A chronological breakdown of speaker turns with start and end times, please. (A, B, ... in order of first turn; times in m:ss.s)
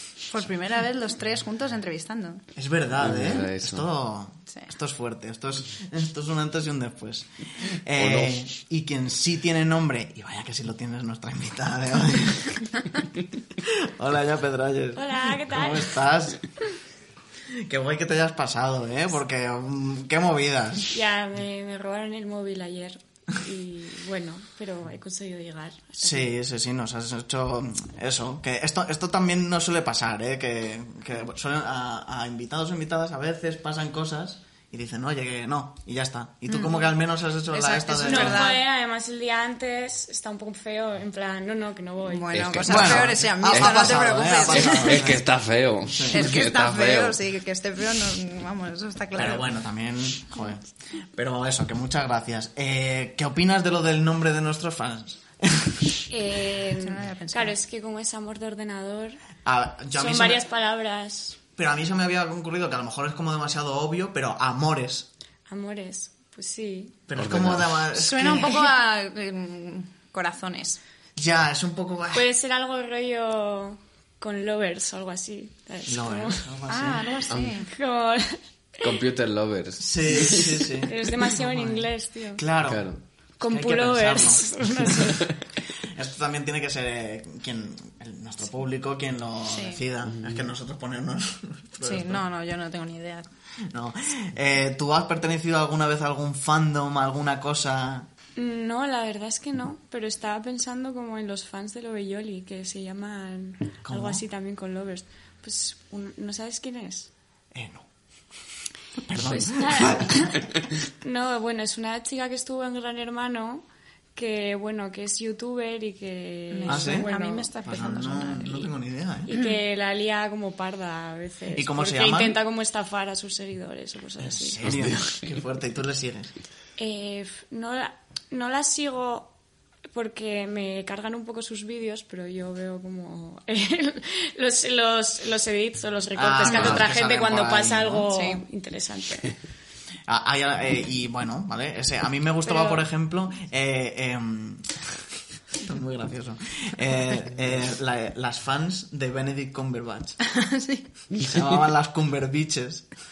0:00.3-0:02.4 A
0:02.5-0:12.8 B
0:03.0-0:03.9 C
0:08.0-0:08.3 C
0:13.6-0:16.4 B
0:14.9-0:15.9 D
0:17.5-0:20.9 B
0:20.9-0:26.3 D
0:26.0-0:38.5 B
0:36.5-0:36.9 A
0:37.5-0:38.6 A
0:38.0-0:42.3 D
0:42.0-0:45.1 A
0:42.3-0:47.2 C
0:42.6-0:45.2 B
0:45.9-0:46.3 B
0:46.1-0:49.5 A
0:49.1-0:50.6 B
0:51.1-0:55.9 B
0:56.1-0:59.2 D
0:56.8-0:57.6 A
0:59.4-1:00.4 B
0:59.9-1:01.4 D
1:01.6-1:05.1 B
1:05.5-1:07.0 D
1:07.1-1:08.6 B
1:07.1-1:07.8 C
1:07.9-1:10.8 A
1:11.2-1:12.3 B
1:12.1-1:16.5 D
1:15.9-1:17.2 B
1:16.7-1:17.7 A
1:17.3-1:17.6 C
1:17.6-1:18.9 D
1:18.8-1:20.6 C
1:19.8-1:22.8 B
1:20.8-1:22.4 D
1:22.7-1:23.0 C
1:23.4-1:25.3 D
1:23.5-1:25.2 B
1:25.8-1:32.2 B
1:29.5-1:29.8 A
1:30.1-1:30.4 C
1:31.8-1:33.3 A
1:33.7-1:38.1 B
1:38.4-1:47.1 D
1:43.8-1:44.2 B
1:47.5-1:47.8 B
1:49.0-1:50.4 B
1:49.1-1:50.5 D
1:51.0-1:53.6 D
1:54.2-1:57.5 D
1:56.5-1:58.7 A
1:56.6-1:57.1 B
1:57.6-1:59.3 B
1:59.2-2:04.6 D
2:01.5-2:02.4 B
2:04.2-2:06.3 B
2:04.6-2:05.0 C
2:06.8-2:09.3 D
2:09.9-2:19.3 D
2:16.1-2:18.1 B
2:16.4-2:16.8 A
2:18.1-2:18.4 A
2:20.1-2:24.9 B
2:22.4-2:22.8 D
2:25.6-2:30.2 B
2:30.2-2:30.8 A
2:31.2-2:32.8 B